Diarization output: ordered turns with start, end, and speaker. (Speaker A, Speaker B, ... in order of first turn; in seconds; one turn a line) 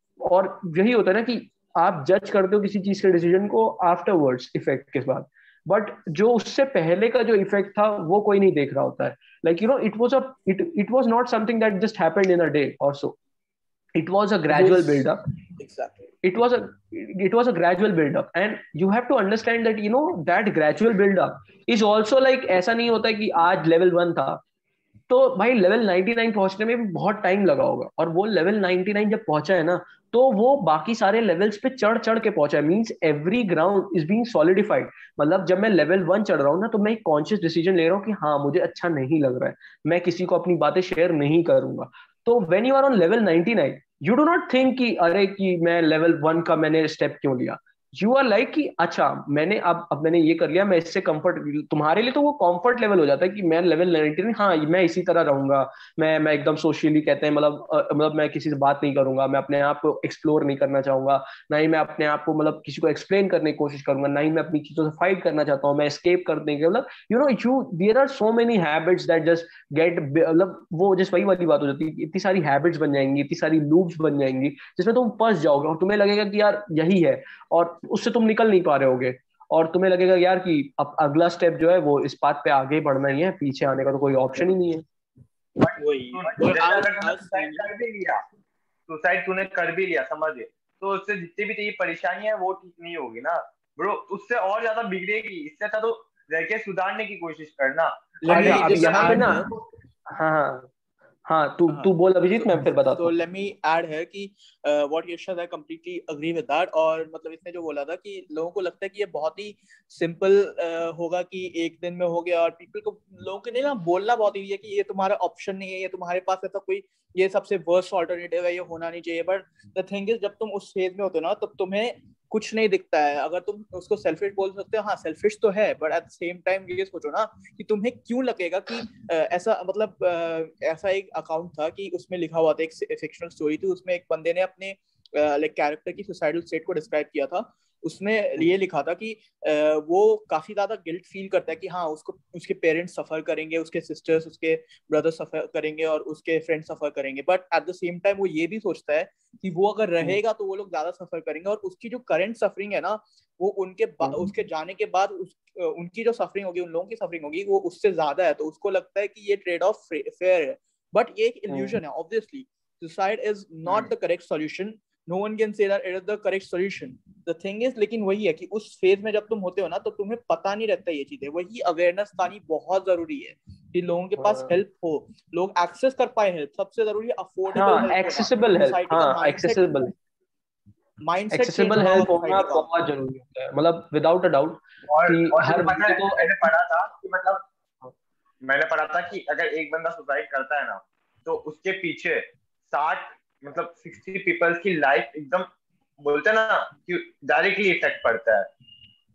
Speaker A: 0.2-13.2
Speaker A: 14.0-15.2
Speaker B: 14.5-16.1
Speaker A: 16.2-24.4
Speaker A: 25.1-84.8
Speaker C: 85.6-88.2
Speaker B: 85.8-87.7
Speaker C: 88.9-99.6
Speaker B: 98.2-99.5
Speaker A: 98.3-99.5
Speaker A: 100.1-100.7
Speaker A: 101.3-103.1
Speaker B: 101.7-179.9
Speaker A: 154.0-154.3
Speaker A: 161.5-161.8
Speaker A: 174.2-174.5
Speaker A: 177.5-179.9
Speaker B: 181.0-182.7
Speaker A: 181.3-186.5
Speaker C: 184.9-187.4
Speaker C: 188.4-195.5
Speaker C: 196.0-198.5